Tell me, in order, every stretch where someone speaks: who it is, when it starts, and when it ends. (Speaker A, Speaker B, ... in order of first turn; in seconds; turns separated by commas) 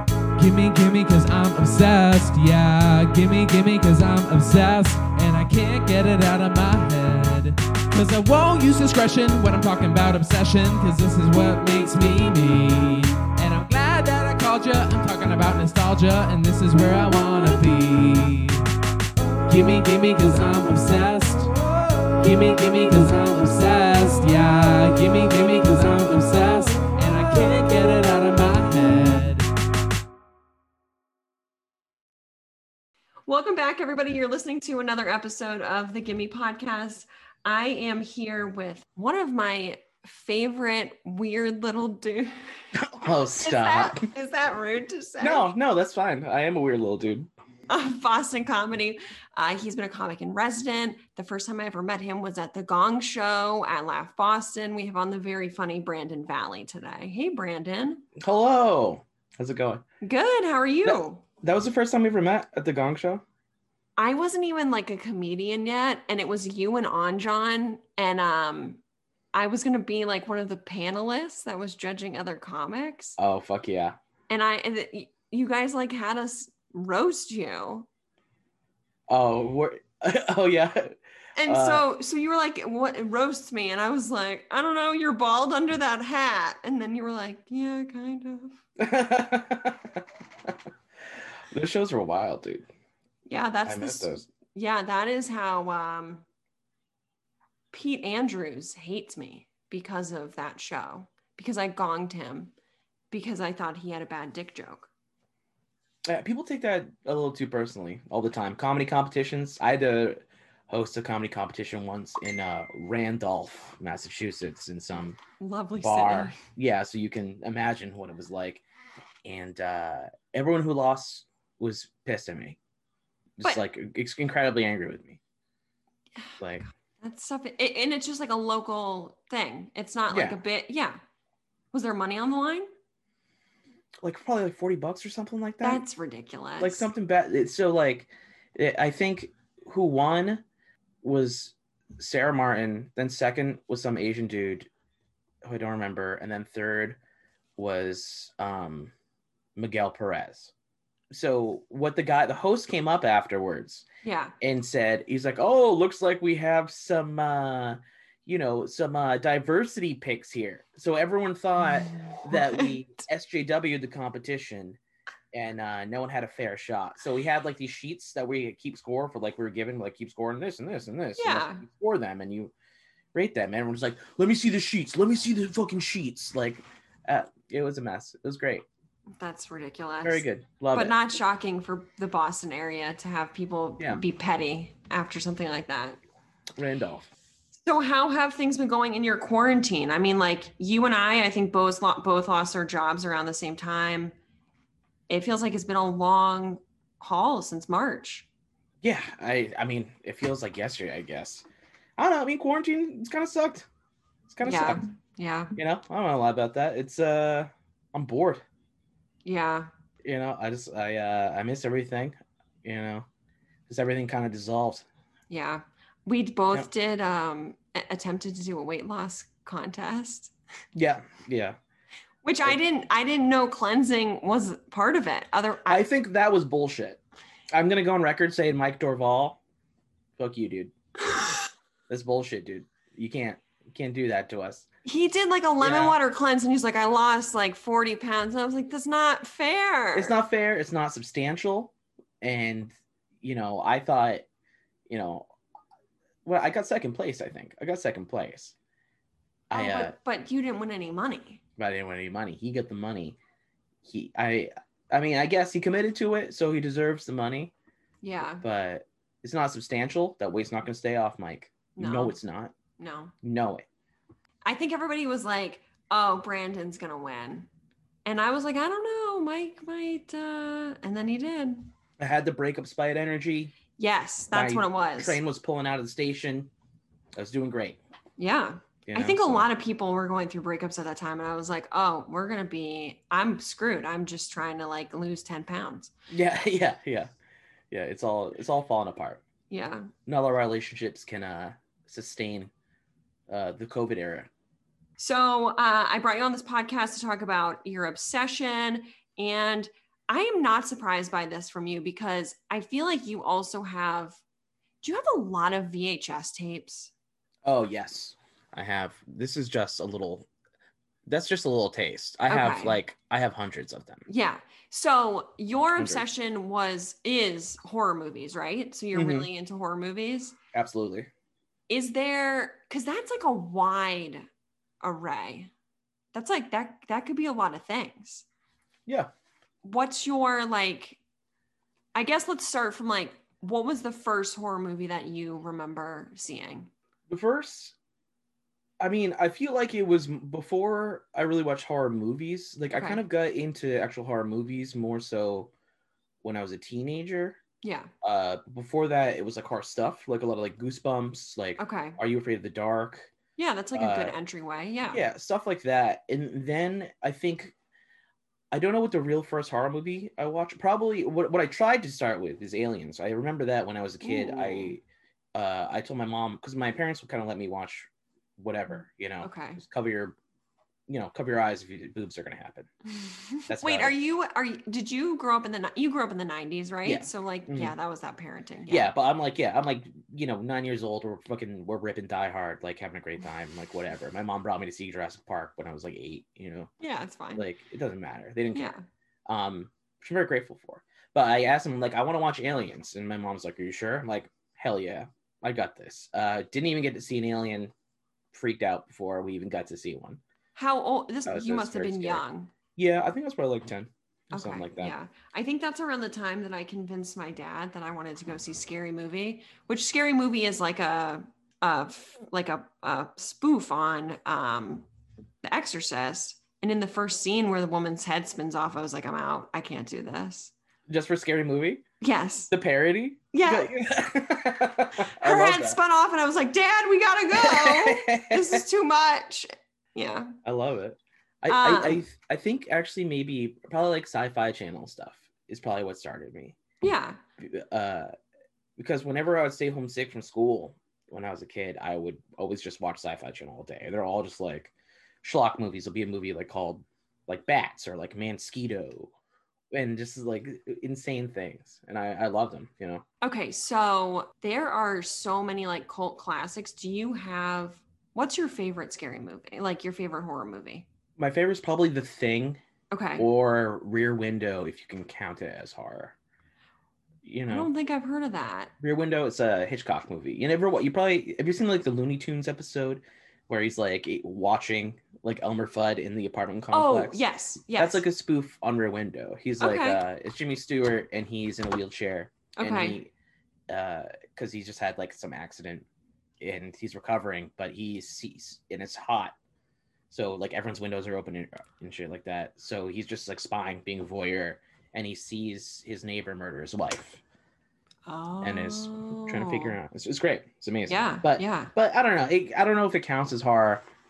Speaker A: 0.4-18.7, Speaker A: 19.5-21.5, Speaker A: 22.2-29.5, Speaker B: 33.3-42.5, Speaker C: 42.7-44.1, Speaker B: 43.4-45.5, Speaker C: 45.2-47.3, Speaker B: 47.7-58.0, Speaker C: 58.2-59.8, Speaker B: 60.0-61.2, Speaker C: 60.9-63.2, Speaker B: 64.0-68.8, Speaker B: 69.3-73.2, Speaker C: 73.2-74.0, Speaker B: 74.3-77.9, Speaker C: 79.1-81.8, Speaker B: 81.4-88.6, Speaker C: 88.8-90.6, Speaker C: 91.5-92.7, Speaker B: 93.3-96.2, Speaker C: 93.7-94.3, Speaker B: 97.7-102.5, Speaker B: 103.1-104.9, Speaker C: 106.1-115.2, Speaker B: 115.4-116.4, Speaker C: 115.8-118.6, Speaker C: 119.2-122.6, Speaker C: 123.4-125.2, Speaker C: 126.4-126.7, Speaker B: 127.0-131.0, Speaker C: 130.1-130.4, Speaker B: 131.7-132.7, Speaker C: 134.0-135.8, Speaker B: 135.6-136.9, Speaker C: 136.6-140.4, Speaker C: 141.0-144.7, Speaker C: 145.4-147.0, Speaker C: 147.6-148.9, Speaker C: 149.6-150.5, Speaker C: 151.1-153.9, Speaker B: 154.0-154.3, Speaker C: 154.4-164.8, Speaker B: 161.9-162.7, Speaker C: 165.3-172.5, Speaker B: 171.2-171.6, Speaker C: 173.1-178.7, Speaker B: 179.2-186.0, Speaker C: 180.0-180.9, Speaker C: 186.6-187.1, Speaker B: 187.6-194.2, Speaker B: 195.1-198.3, Speaker C: 198.8-201.4, Speaker C: 202.0-203.7, Speaker C: 204.3-204.8, Speaker B: 204.4-205.6, Speaker C: 205.6-208.4, Speaker B: 209.2-209.7, Speaker C: 210.0-213.1, Speaker C: 213.7-214.8, Speaker B: 215.3-220.3, Speaker C: 220.8-221.6, Speaker B: 222.2-225.8, Speaker C: 225.7-227.0, Speaker C: 227.5-229.4, Speaker C: 230.2-230.7, Speaker C: 231.9-234.7, Speaker B: 234.8-240.2, Speaker C: 235.6-236.0, Speaker C: 239.9-244.3, Speaker C: 244.9-245.3, Speaker C: 246.2-248.6, Speaker C: 249.5-249.9, Speaker B: 249.5-251.4, Speaker C: 251.6-253.2, Speaker C: 253.8-257.5, Speaker B: 258.0-258.4, Speaker C: 258.4-262.5, Speaker B: 261.8-262.2, Speaker B: 262.8-263.1, Speaker C: 263.2-263.6, Speaker B: 264.4-267.5, Speaker B: 268.1-271.7, Speaker C: 272.0-273.6, Speaker B: 273.8-275.2, Speaker C: 274.3-276.5, Speaker C: 277.2-277.8, Speaker B: 278.2-285.9, Speaker C: 278.9-279.5, Speaker C: 286.1-287.1, Speaker C: 287.7-289.2, Speaker B: 289.5-289.9, Speaker C: 290.1-292.5, Speaker C: 293.3-294.3, Speaker B: 295.0-304.2, Speaker B: 304.8-306.9, Speaker C: 307.4-310.3, Speaker C: 311.1-314.1, Speaker B: 312.3-312.8, Speaker B: 314.1-320.4, Speaker C: 315.8-316.0, Speaker C: 318.9-319.3, Speaker C: 320.5-321.1, Speaker B: 321.7-324.3, Speaker B: 324.8-325.5, Speaker B: 326.1-328.3, Speaker B: 329.6-331.0, Speaker B: 331.9-336.7, Speaker C: 337.1-337.8, Speaker C: 338.8-345.5, Speaker B: 342.7-343.0, Speaker C: 346.2-347.4, Speaker B: 347.6-347.9, Speaker C: 348.0-353.1, Speaker B: 351.6-352.0, Speaker B: 353.4-355.0, Speaker C: 353.7-354.2, Speaker C: 354.9-357.5, Speaker C: 358.5-364.8, Speaker B: 364.0-364.7, Speaker C: 365.3-370.2, Speaker B: 369.2-369.6, Speaker C: 370.9-372.7, Speaker B: 372.9-378.9, Speaker C: 373.5-373.9, Speaker C: 376.9-377.7, Speaker C: 378.7-386.7, Speaker B: 386.8-387.5, Speaker C: 387.4-388.7, Speaker B: 388.5-388.8, Speaker C: 389.3-397.7, Speaker C: 398.3-400.2, Speaker B: 400.6-402.5, Speaker C: 401.3-402.2, Speaker C: 402.8-404.9, Speaker B: 404.3-414.9, Speaker B: 415.4-420.5, Speaker C: 420.9-421.8, Speaker B: 422.0-422.5, Speaker C: 422.5-425.8, Speaker B: 423.3-423.7, Speaker B: 424.9-430.4, Speaker C: 427.3-428.6, Speaker C: 430.4-436.6, Speaker B: 431.5-432.1, Speaker B: 436.8-437.2, Speaker C: 437.4-438.1, Speaker C: 438.8-449.1, Speaker C: 449.7-453.1, Speaker B: 453.2-460.9, Speaker C: 461.2-462.6, Speaker B: 462.9-463.3, Speaker C: 463.2-466.2, Speaker C: 467.2-467.7, Speaker B: 467.5-468.7, Speaker C: 468.8-477.2, Speaker B: 476.7-478.1, Speaker C: 477.7-483.1, Speaker B: 479.6-480.0, Speaker B: 482.6-483.0, Speaker C: 483.7-485.9, Speaker C: 486.4-489.4, Speaker C: 490.1-497.2, Speaker B: 498.1-499.8, Speaker C: 498.4-503.8, Speaker B: 500.9-501.7